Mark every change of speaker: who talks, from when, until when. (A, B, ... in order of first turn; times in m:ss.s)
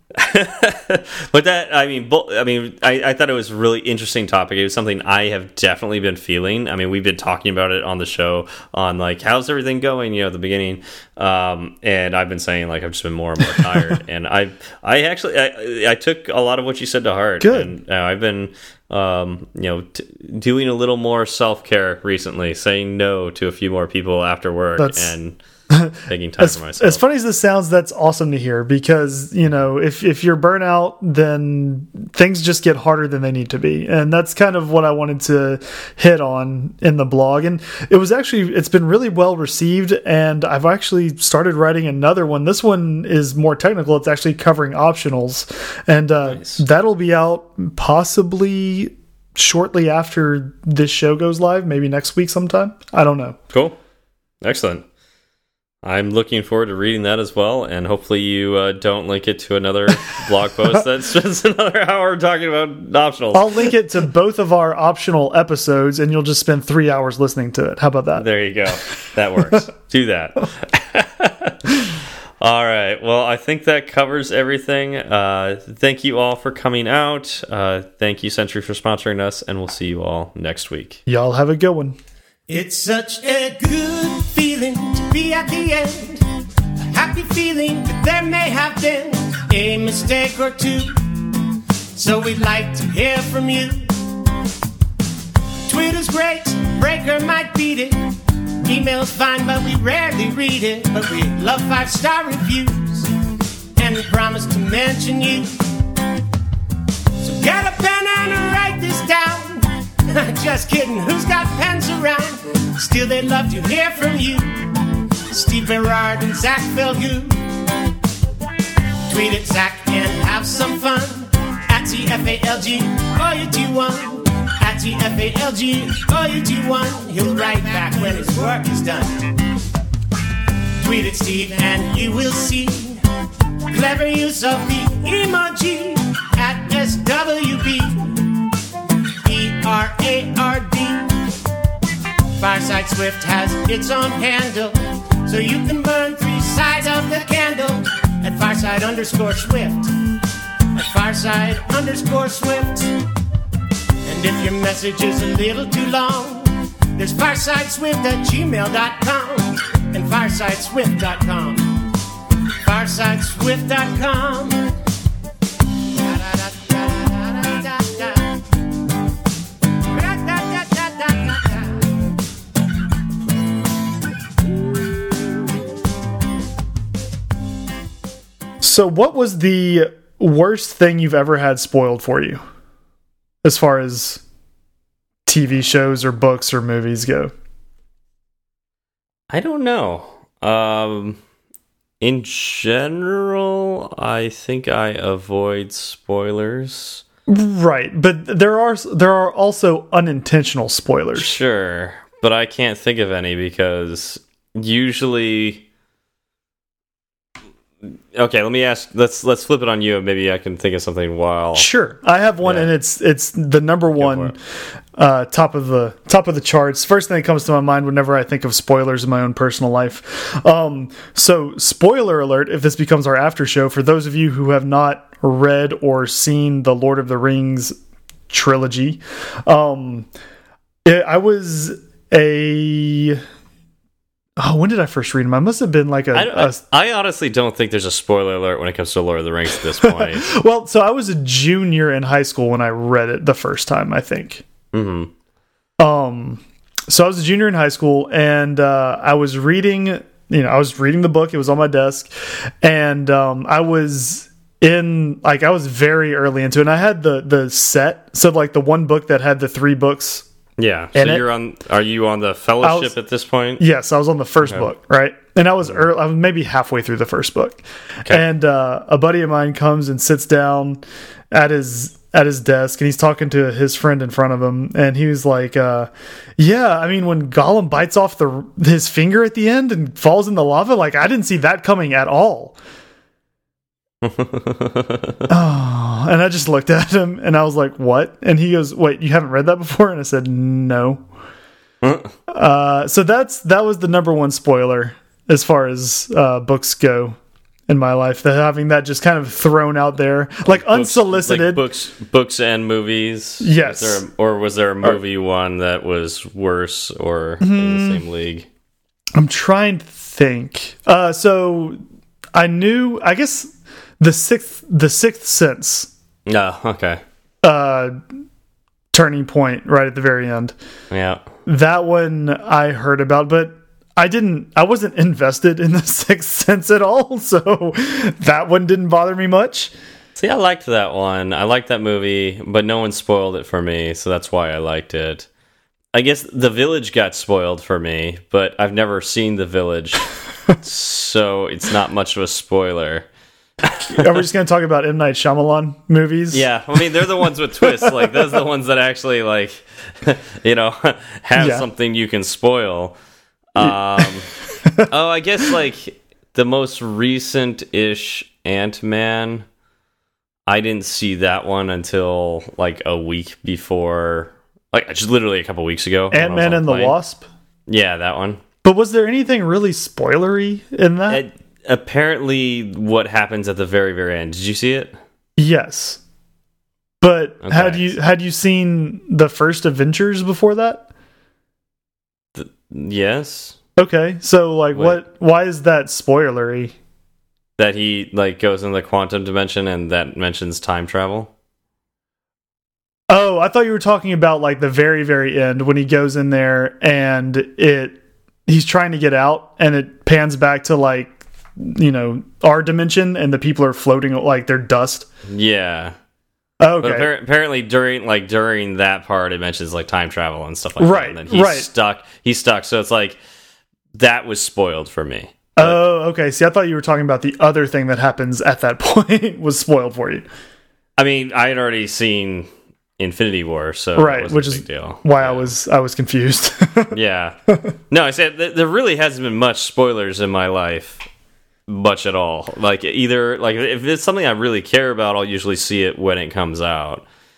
0:00.1-0:25.4 A
0:17.4-0:17.7 B
0:24.8-0:25.1 B
0:25.7-0:53.4 B
0:26.0-0:27.0 A
0:46.2-0:46.6 A
0:53.5-0:53.8 A
0:54.4-0:54.8 A
0:55.8-1:03.7 A
1:03.3-1:08.2 B
1:08.2-1:21.0 A
1:21.1-1:22.0 B
1:22.5-1:26.2 C
1:26.9-1:31.3 C
1:31.9-1:33.9 C
1:35.6-1:43.1 C
1:43.8-1:45.6 C
1:47.2-1:54.7 C
1:55.3-1:57.4 C
1:59.1-2:09.3 C
2:10.8-2:13.0 C
2:13.7-2:18.2 C
2:19.2-2:21.2 C
2:22.4-2:29.9 C
2:30.7-2:33.0 C
2:34.0-2:41.8 C
2:42.6-2:44.7 C
2:45.9-2:48.4 C
2:49.8-2:51.9 C
2:58.6-3:02.4 B
3:03.4-3:04.2 B
3:05.2-3:07.3 B
3:09.3-3:11.2 A
3:12.0-3:17.0 A
3:17.3-3:21.4 B
3:21.1-3:25.6 A
3:27.8-3:31.7 A
3:31.6-3:34.4 B
3:32.4-3:32.7 A
3:34.0-3:34.3 A
3:35.0-3:47.7 B
3:48.3-3:50.1 B
3:50.8-3:53.2 B
3:54.4-3:56.6 B
3:56.1-4:00.3 A
3:59.8-4:04.4 B
4:04.7-4:05.1 A
4:05.8-4:20.2 B
4:20.6-4:23.6 A
4:20.9-4:21.2 B
4:22.6-4:22.9 B
4:23.6-4:42.6 B
4:24.4-4:24.7 A
4:44.0-4:45.3 A
4:45.3-4:51.1 B
4:51.8-4:52.1 A
4:52.3-5:01.6 B
5:00.4-5:08.5 A
5:03.4-5:04.0 B
5:07.4-5:08.0 B
5:09.2-5:11.8 B
5:12.3-5:15.9 B
5:16.2-5:17.0 A
5:17.4-5:18.0 B
5:18.9-5:20.5 B
5:20.9-5:21.2 A
5:21.4-5:29.7 B
5:30.2-5:35.3 A
5:35.9-5:43.1 A
5:43.7-5:44.2 A
5:43.8-5:46.4 B
5:46.3-5:53.0 A
5:51.4-5:51.6 B
5:53.5-5:54.3 A
5:53.6-5:54.1 B
5:54.8-5:59.4 A
6:00.5-6:07.0 A
6:06.1-6:07.2 B
6:07.7-6:08.4 A
6:08.6-6:11.2 B
6:11.1-6:15.0 A
6:15.4-6:16.0 B
6:17.0-6:20.8 B
6:17.4-6:17.9 A
6:22.3-6:23.6 A
6:23.8-6:26.7 B
6:24.7-6:25.0 A
6:27.6-6:31.3 A
6:33.1-6:45.1 B
6:45.3-6:46.0 A
6:46.6-6:47.1 B
6:46.8-6:53.2 A
6:50.8-6:51.7 B
6:53.9-6:55.8 A
6:55.6-7:00.2 B
7:01.0-7:05.5 A
7:04.0-7:06.9 B
7:06.9-7:07.4 A
7:07.9-7:11.0 A
7:11.7-7:17.0 A